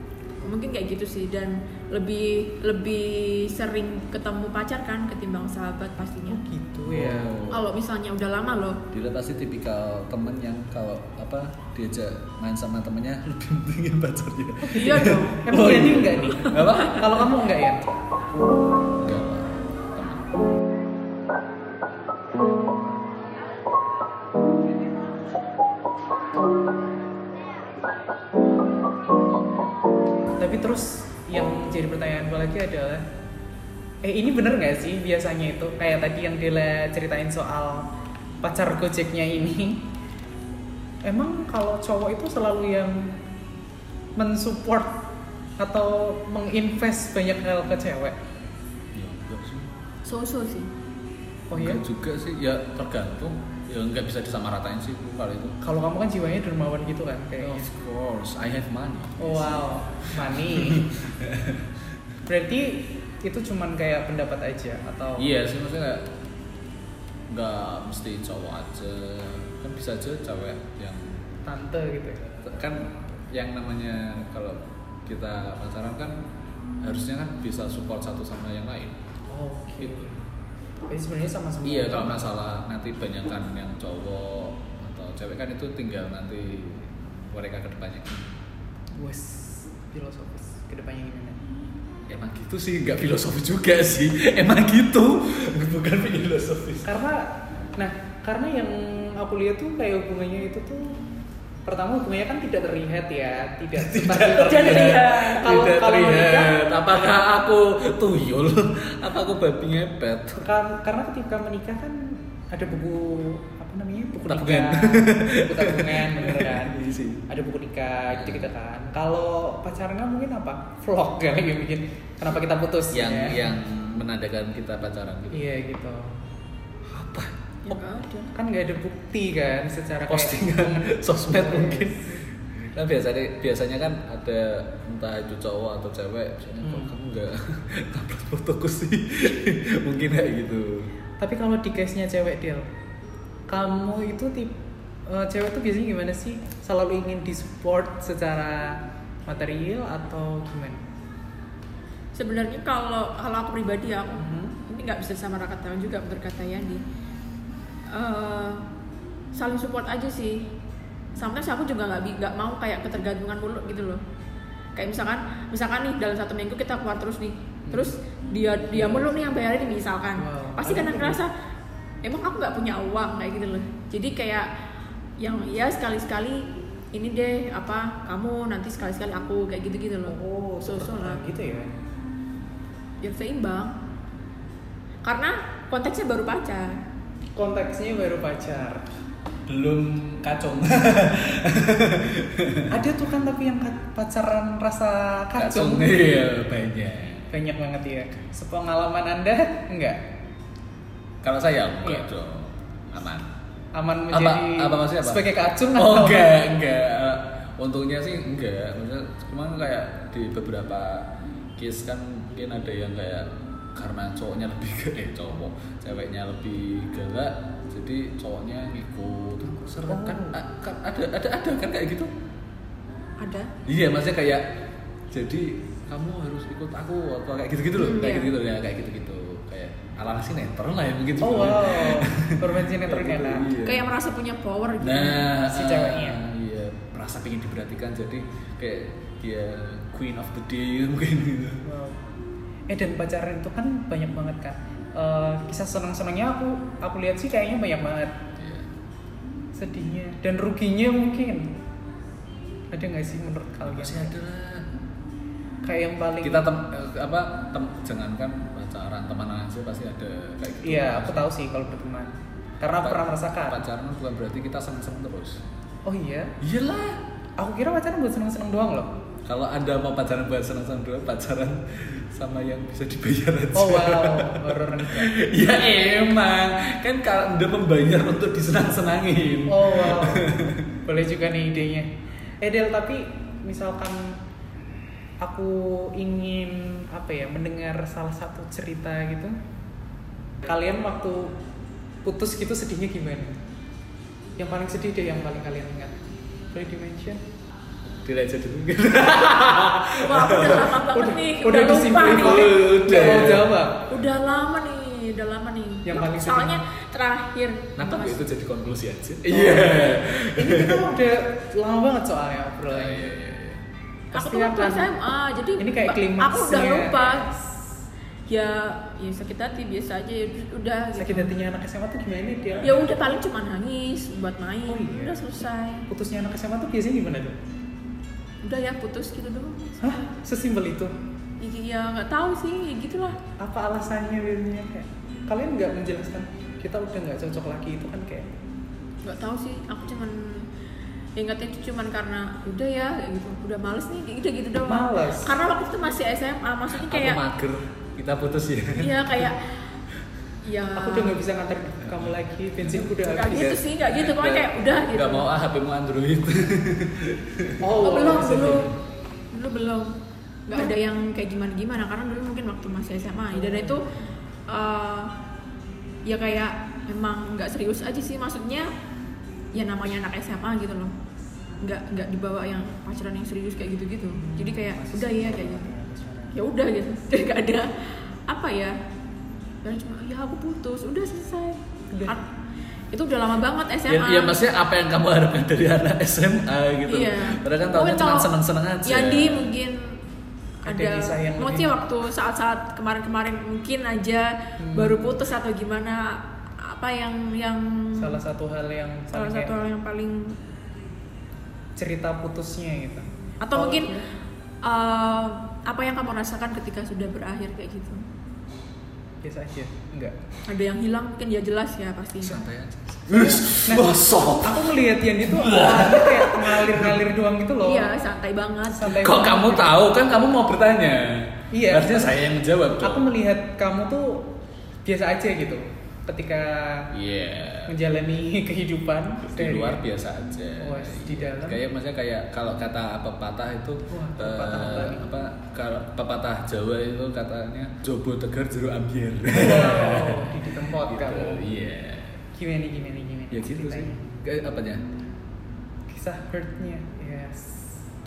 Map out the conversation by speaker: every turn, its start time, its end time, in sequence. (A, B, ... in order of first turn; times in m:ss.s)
0:00.4-0:06.4 A
0:06.3-0:07.4 B
0:06.8-0:07.6 C
0:07.5-0:08.8 A
0:08.9-0:17.3 C
0:14.6-0:18.0 B
0:14.7-0:15.4 A
0:19.0-0:20.3 C
0:30.4-0:33.0 B
0:34.0-0:37.9 B
0:38.4-0:39.9 B
0:41.0-0:43.2 B
0:44.2-0:45.0 B
0:45.6-0:48.2 B
0:48.9-0:49.7 C
0:50.0-0:50.7 A
0:51.5-0:51.8 B
0:51.6-0:55.6 C
0:55.6-0:57.7 B
0:57.4-1:01.7 C
0:59.2-1:00.9 B
1:02.2-1:05.3 B
1:05.2-1:06.1 C
1:07.3-1:11.2 C
1:11.4-1:12.3 B
1:12.4-1:16.2 C
1:16.8-1:19.0 C
1:19.3-1:20.2 B
1:20.9-1:22.2 B
1:21.6-1:28.3 C
1:29.0-1:31.4 B
1:32.1-1:36.9 C
1:36.8-1:41.0 B
1:41.6-1:46.6 B
1:43.7-1:50.4 C
1:44.4-1:45.3 A
1:50.4-2:03.5 B
1:54.2-1:57.2 C
1:58.1-1:58.5 C
2:02.9-2:05.5 C
2:05.3-2:06.2 B
2:06.9-2:07.3 C
2:07.7-2:08.3 A
2:07.7-2:12.2 B
2:10.1-2:20.9 C
2:16.6-2:16.9 B
2:21.2-2:22.6 B
2:23.5-2:24.6 B
2:25.1-2:30.8 B
2:32.1-2:36.8 A
2:34.2-2:34.6 B
2:37.9-2:38.6 A
2:39.3-2:40.5 A
2:41.2-2:44.0 A
2:44.8-2:51.3 A
2:47.7-2:47.9 B
2:48.7-2:49.1 B
2:50.2-2:51.2 B
2:52.0-2:54.5 A
2:55.2-3:01.2 A
3:00.1-3:01.7 B
3:03.0-3:03.7 A
3:05.0-3:06.8 A
3:07.4-3:08.8 B
3:09.5-3:12.7 C
3:12.7-3:16.0 B
3:15.4-3:17.3 C
3:17.3-3:20.0 B
3:21.2-3:23.3 C
3:23.7-3:26.3 B
3:24.1-3:42.1 C
3:39.9-3:40.4 B
3:43.2-3:43.5 A
3:43.6-3:44.5 C
3:45.1-3:53.9 C
3:47.8-3:48.3 A
3:51.2-3:53.5 B
3:53.6-3:55.3 A
3:54.8-4:01.6 C
3:55.4-3:56.2 B
4:01.6-4:02.0 B
4:02.7-4:08.2 B
4:08.4-4:08.7 C
4:09.5-4:11.5 B
4:12.7-4:14.2 B
4:13.6-4:14.7 C
4:15.6-4:16.5 B
4:16.2-4:21.3 C
4:20.6-4:23.6 B
4:22.8-4:25.4 C
4:25.8-4:26.3 B
4:26.4-4:27.0 C
4:27.4-4:28.9 B
4:29.2-4:40.7 C
4:33.5-4:35.1 B
4:39.5-4:44.2 B
4:45.2-4:49.4 B
4:50.4-4:51.3 B
4:52.0-4:53.4 B
4:54.4-4:56.0 B
4:56.5-4:57.2 B
4:58.0-5:00.8 C
5:00.0-5:02.6 A
5:00.7-5:03.9 B
5:02.1-5:03.6 C
5:03.9-5:08.2 A
5:05.8-5:06.6 B
5:07.8-5:10.8 C
5:09.3-5:13.1 B
5:12.7-5:13.6 C
5:14.1-5:14.9 B
5:14.1-5:17.3 A
5:15.6-5:17.4 B
5:18.3-5:21.3 A
5:20.9-5:22.9 B
5:22.6-5:25.9 A
5:24.7-5:25.2 B
5:25.9-5:27.4 B
5:28.4-5:30.0 A
5:29.8-5:30.9 B
5:31.4-5:33.2 A
5:33.4-5:38.3 B
5:39.0-5:40.5 A
5:41.2-5:47.2 A
5:44.6-5:45.3 B
5:46.7-5:49.3 C
5:48.8-5:49.6 A
5:50.4-5:51.2 A
5:50.8-5:53.6 B
5:51.8-5:52.9 C
5:53.0-5:55.3 A
5:53.8-5:58.7 C
5:57.6-5:58.7 B
5:57.8-5:58.7 A
5:59.3-5:59.9 A
6:00.5-6:03.9 A
6:03.3-6:03.8 B
6:04.5-6:05.1 A
6:06.0-6:08.7 A
6:09.5-6:10.9 A
6:11.6-6:15.6 A
6:14.1-6:16.4 B
6:16.3-6:18.8 A
6:19.6-6:22.2 A
6:22.9-6:24.3 A
6:23.9-6:29.5 C
6:26.9-6:28.3 A
6:28.8-6:30.0 A
6:30.6-6:31.7 B
6:30.6-6:38.1 A
6:34.6-6:35.1 B
6:38.0-6:39.6 B
6:39.1-6:40.4 A
6:41.8-6:44.1 B
6:43.4-6:44.0 A
6:44.6-6:48.0 A
6:49.2-6:50.2 B
6:50.5-6:52.4 A
6:52.2-6:57.0 C
6:53.2-6:57.9 B
6:57.6-6:59.0 A
6:58.7-6:59.7 B
6:59.0-7:03.1 C
7:01.5-7:02.2 B
7:02.8-7:04.3 B
7:04.8-7:06.9 B
7:06.9-7:07.7 C
7:07.6-7:09.8 B
7:09.3-7:22.2 C
7:10.6-7:11.6 B
7:13.9-7:15.1 B
7:19.3-7:21.5 B
7:22.3-7:24.0 B
7:23.3-7:24.8 C
7:25.9-7:27.7 B